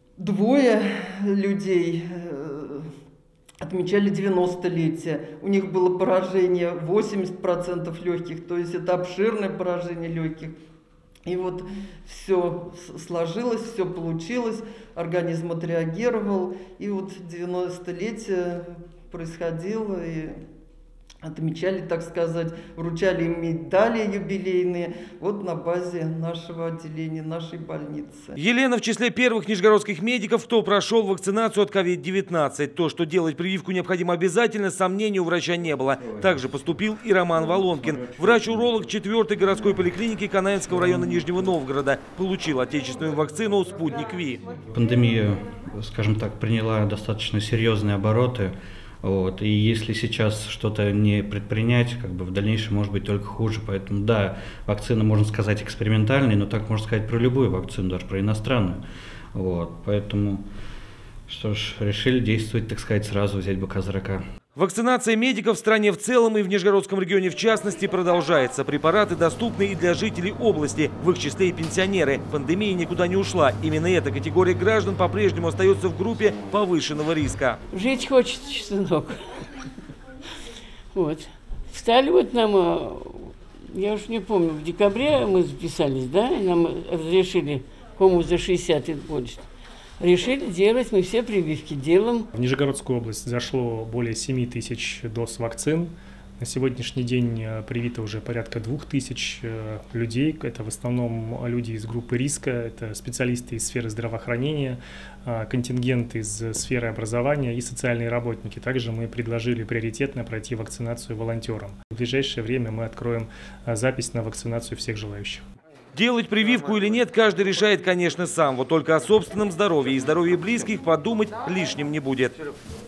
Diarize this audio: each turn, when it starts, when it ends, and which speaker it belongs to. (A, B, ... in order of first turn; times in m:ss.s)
0:00.2-0:02.9 A
0:03.6-0:10.5 A
0:11.3-0:20.4 A
0:21.2-0:28.4 A
0:28.4-0:44.4 B
0:44.7-0:58.8 C
0:59.4-1:00.5 C
1:01.3-1:04.2 C
1:04.6-1:17.6 B
1:17.7-1:19.6 D
1:20.9-1:29.5 D
1:30.0-1:32.3 D
1:32.3-1:55.4 E
1:55.9-2:02.4 B